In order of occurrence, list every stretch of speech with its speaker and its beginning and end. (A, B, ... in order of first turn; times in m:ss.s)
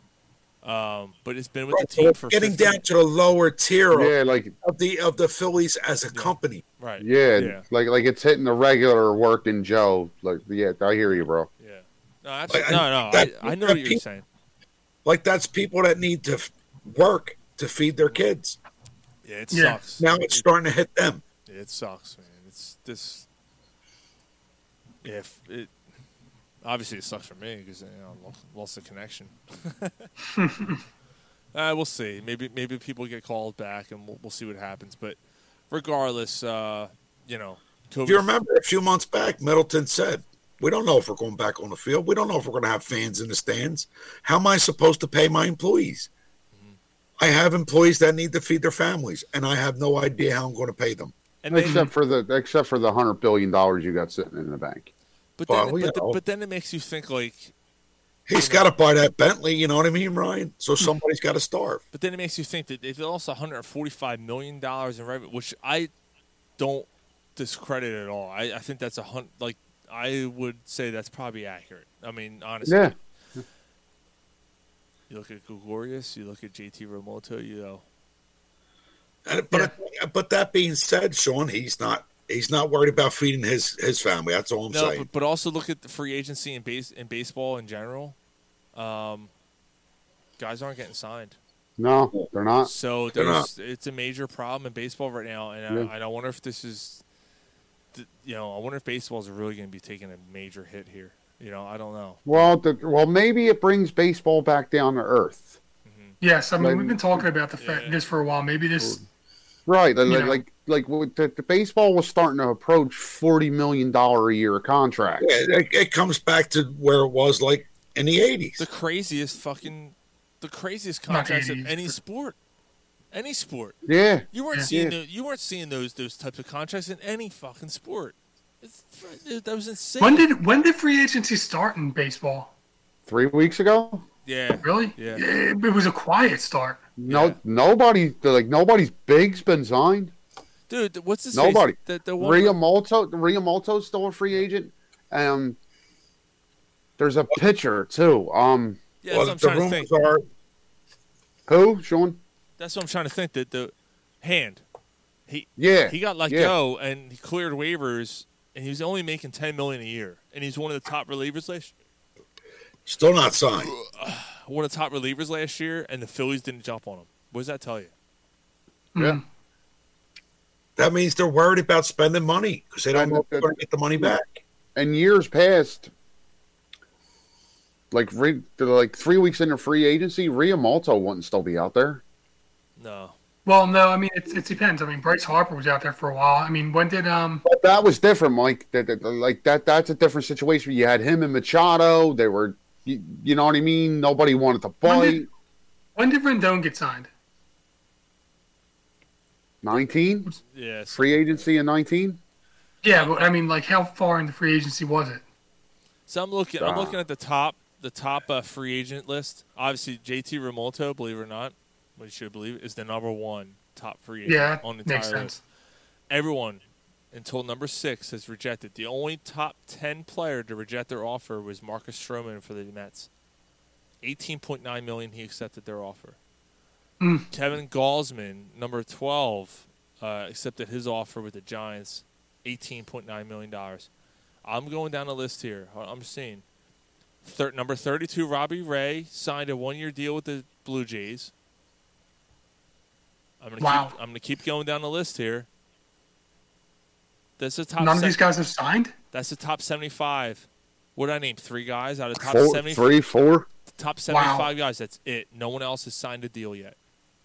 0:00.6-0:02.8 A
0:01.7-0:06.6 B
0:03.9-0:04.5 C
0:06.1-0:07.6 A
0:07.0-0:11.5 C
0:11.6-0:14.2 A
0:12.5-0:14.0 B
0:15.0-0:18.6 B
0:19.2-0:20.5 A
0:19.5-0:19.8 D
0:20.0-0:21.2 B
0:21.4-0:23.3 A
0:25.0-0:25.7 A
0:26.6-0:30.1 A
0:30.3-0:30.8 D
0:31.5-0:35.2 A
0:35.7-0:38.3 A
0:38.0-0:46.1 B
0:47.2-0:51.1 B
0:51.4-0:51.9 A
0:51.5-0:54.9 C
0:55.4-0:57.5 A
0:55.5-0:56.2 B
0:58.3-1:01.8 B
0:58.3-0:58.7 A
1:01.9-1:05.9 A
1:06.6-1:12.9 A
1:12.6-1:12.9 C
1:15.1-1:17.8 A
1:19.3-1:25.1 B
1:24.7-1:28.2 A
1:28.7-1:29.3 A
1:30.4-1:31.4 A
1:31.8-1:32.7 C
1:32.6-1:37.0 A
1:33.2-1:33.5 B
1:37.9-1:42.5 A
1:42.3-1:45.6 C
1:45.8-1:46.2 A
1:46.2-1:49.0 D
1:46.6-1:47.3 C
1:47.6-1:48.0 A
1:49.7-1:55.3 C
1:50.0-1:50.4 D
1:55.2-1:58.6 B
1:58.6-2:02.4 A
2:01.1-2:01.9 D
2:03.1-2:10.3 A
2:03.8-2:04.9 C
2:10.0-2:12.5 D
2:13.1-2:14.0 C
2:14.2-2:15.3 A
2:14.6-2:16.8 D
2:17.0-2:20.1 C
2:17.1-2:17.4 A
2:20.7-2:22.6 A
2:21.3-2:25.6 C
2:27.0-2:28.8 C
2:29.0-2:29.9 A
2:29.1-2:30.2 B
2:31.5-2:32.2 C
2:32.6-2:34.6 A
2:35.3-2:41.7 A
2:35.6-2:36.6 C
2:42.8-2:43.7 B
2:43.6-2:47.9 A
2:48.9-2:49.2 D
2:50.8-2:54.4 B
2:52.9-2:54.2 C
2:54.7-2:55.9 C
2:57.9-3:02.0 C
3:02.8-3:03.2 A
3:03.4-3:07.4 D
3:07.4-3:15.3 C
3:14.8-3:15.2 D
3:16.0-3:17.1 D
3:19.6-3:20.3 C
3:20.4-3:21.4 A
3:20.9-3:22.2 C
3:22.8-3:25.2 D
3:26.1-3:35.3 A
3:26.6-3:27.0 C
3:34.3-3:35.4 D
3:36.1-3:43.1 A
3:44.0-3:46.2 A
3:47.0-3:47.3 D
3:47.3-3:53.9 A
3:54.4-3:56.4 A
3:57.2-4:01.3 A
4:03.4-4:05.5 A
4:03.6-4:03.9 D
4:07.4-4:08.2 A
4:07.8-4:08.9 D
4:09.1-4:13.0 A
4:12.2-4:13.5 C
4:13.7-4:16.8 A
4:14.1-4:14.5 D